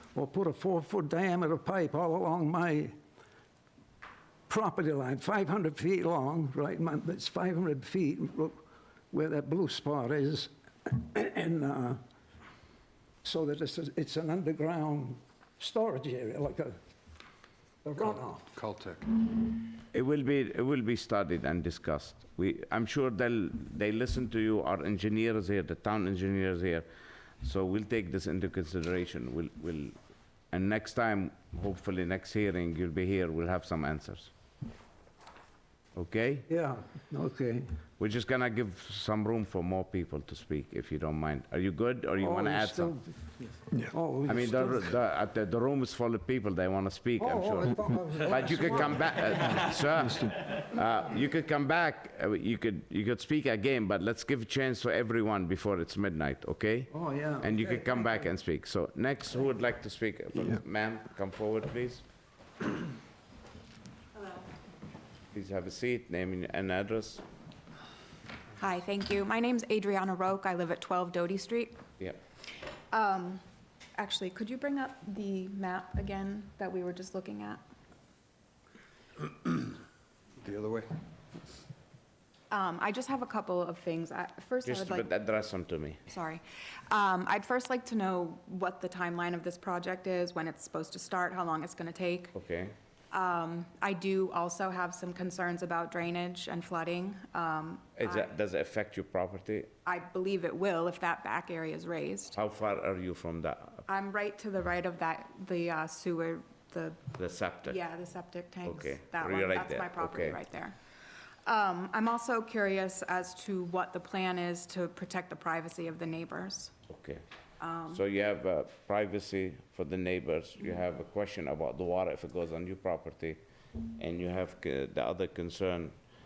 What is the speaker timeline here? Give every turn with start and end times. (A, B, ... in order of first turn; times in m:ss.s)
0:00.1-0:03.0 A
0:04.5-0:08.6 A
0:09.1-0:12.0 A
0:13.2-0:16.8 A
0:17.8-0:18.5 A
0:18.0-0:19.0 B
0:19.9-0:26.9 C
0:27.4-0:30.0 C
0:30.5-0:34.3 C
0:36.0-0:36.4 C
0:36.5-0:37.7 A
0:38.0-0:43.0 C
0:42.2-0:43.1 A
0:43.9-0:45.0 A
0:44.3-1:02.0 C
0:47.2-0:50.3 A
0:49.5-0:50.4 B
0:56.9-0:58.1 A
1:05.3-1:07.2 C
1:08.6-1:11.8 D
1:12.9-1:13.4 D
1:14.0-1:17.6 D
1:20.4-1:20.9 B
1:22.5-1:25.1 D
1:24.6-1:26.0 C
1:26.1-1:32.3 D
1:32.3-1:32.7 C
1:33.1-1:38.3 D
1:38.0-1:39.7 C
1:39.9-1:42.4 D
1:42.3-1:43.8 C
1:43.9-1:47.0 D
1:47.2-1:47.8 C
1:47.6-1:50.8 D
1:48.6-1:50.4 C
1:51.5-1:56.7 D
1:56.9-1:57.2 C
1:57.6-1:58.0 D
1:57.9-2:03.4 C
2:03.9-2:05.9 C